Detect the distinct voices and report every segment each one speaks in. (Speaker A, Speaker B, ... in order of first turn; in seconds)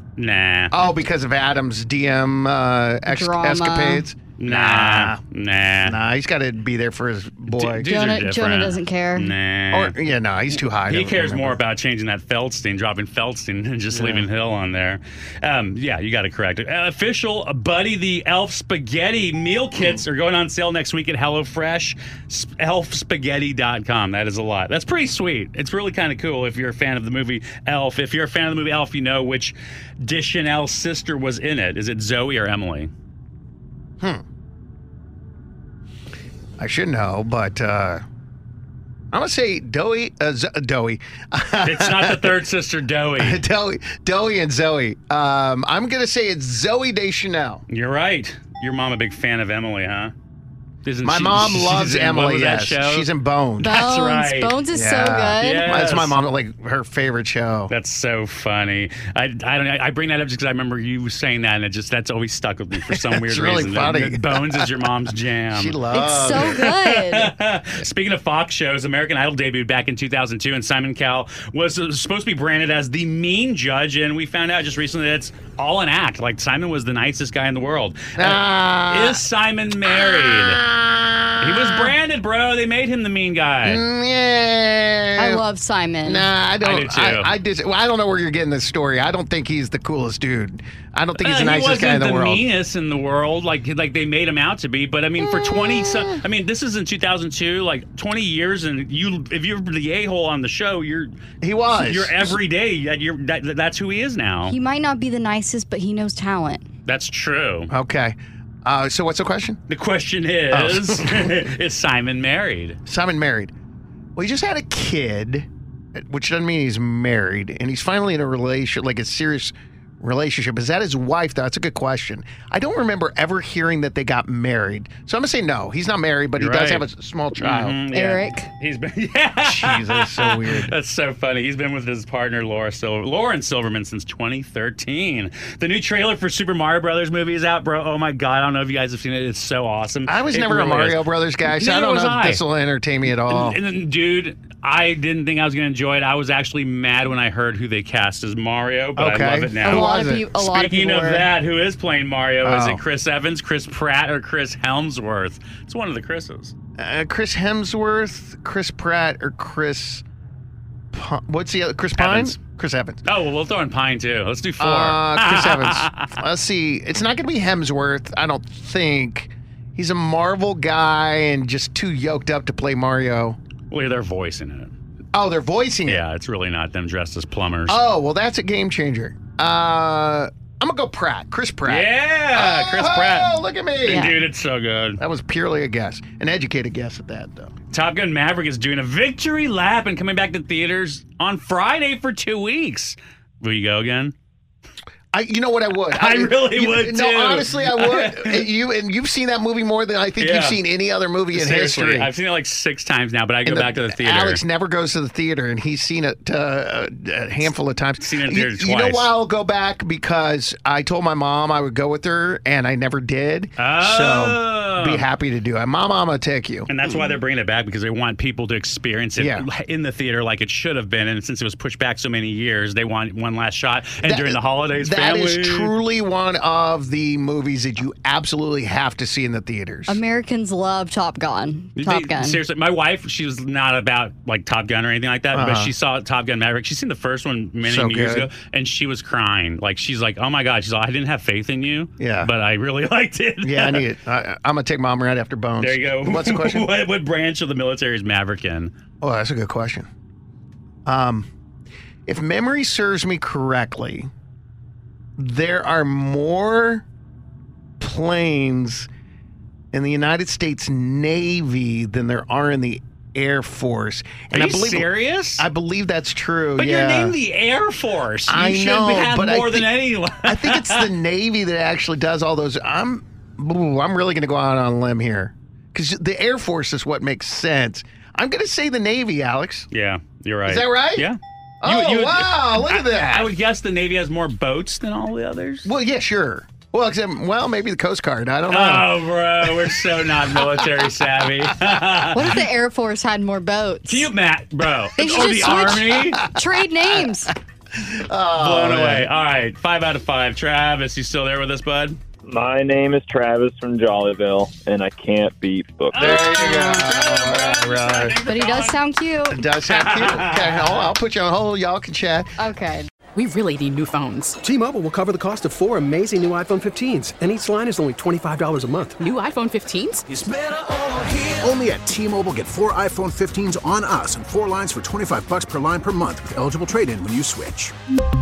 Speaker A: 0.1-0.7, 4.4-6.0, 7.5-9.9, 10.8-32.9, 41.6-43.4, 47.7-50.1, 50.8-53.1, 53.6-54.6, 55.4-56.2, 57.7-80.6, 81.4-83.8, 86.6-87.3, 91.2-101.1, 101.7-104.5, 106.8-107.7, 109.7-112.8, 126.3-142.4, 143.2-156.5, 162.0-162.4, 163.0-166.2, 173.7-174.7, 175.8-177.8, 181.6-185.0, 187.7-194.1, 195.9-198.5, 200.2-200.6, 201.3-204.4, 208.0-209.1, 213.6-215.1, 216.7-225.8, 231.8-243.9, 245.6-248.7, 264.3-265.5, 266.6-270.9, 279.7-285.7, 288.5-292.4, 293.9-296.2, 298.3-302.0, 305.9-308.8, 309.7-310.9
Speaker B: 0.7-5.2, 5.8-7.9, 9.7-11.6, 13.9-14.3, 36.6-38.0, 39.1-42.4, 43.1-47.6, 51.0-53.8, 54.7-57.7, 62.9-64.7, 65.5-66.7, 78.2-79.2, 79.9-82.0, 83.6-85.4, 86.0-92.4, 95.2-96.2, 101.4-102.3, 107.7-109.6, 110.5-111.4, 112.8-113.5, 114.2-127.8, 129.4-130.7, 140.0-143.6, 148.9-150.3, 152.4-152.8, 156.8-160.0, 160.9-163.0, 164.6-173.4, 175.1-176.0, 177.7-184.2, 185.0-187.5, 195.1-202.1, 203.4-217.1, 219.2-219.5, 224.0-230.0, 235.3-235.7, 237.6-238.3, 242.0-242.3, 243.4-246.7, 249.0-249.9, 250.8-251.3, 252.1-254.1, 255.2-256.8, 257.8-258.9, 259.7-267.2, 268.3-279.7, 280.4-281.1, 281.6-283.3, 285.6-289.7, 295.9-297.1, 297.8-299.1, 305.9-308.2, 309.3-312.4
Speaker C: 3.0-4.1, 7.9-9.3, 53.6-55.7, 65.9-67.3, 85.2-86.3, 104.5-106.6, 127.9-128.5, 149.6-151.3, 183.9-184.1, 229.9-232.4, 292.1-294.1, 294.9-297.3, 306.3-306.9, 308.2-309.5, 312.4-312.9
Speaker D: 302.2-306.4
Speaker E: 313.1-314.4, 319.0-320.0
Speaker F: 314.4-319.0
Speaker G: 321.3-327.7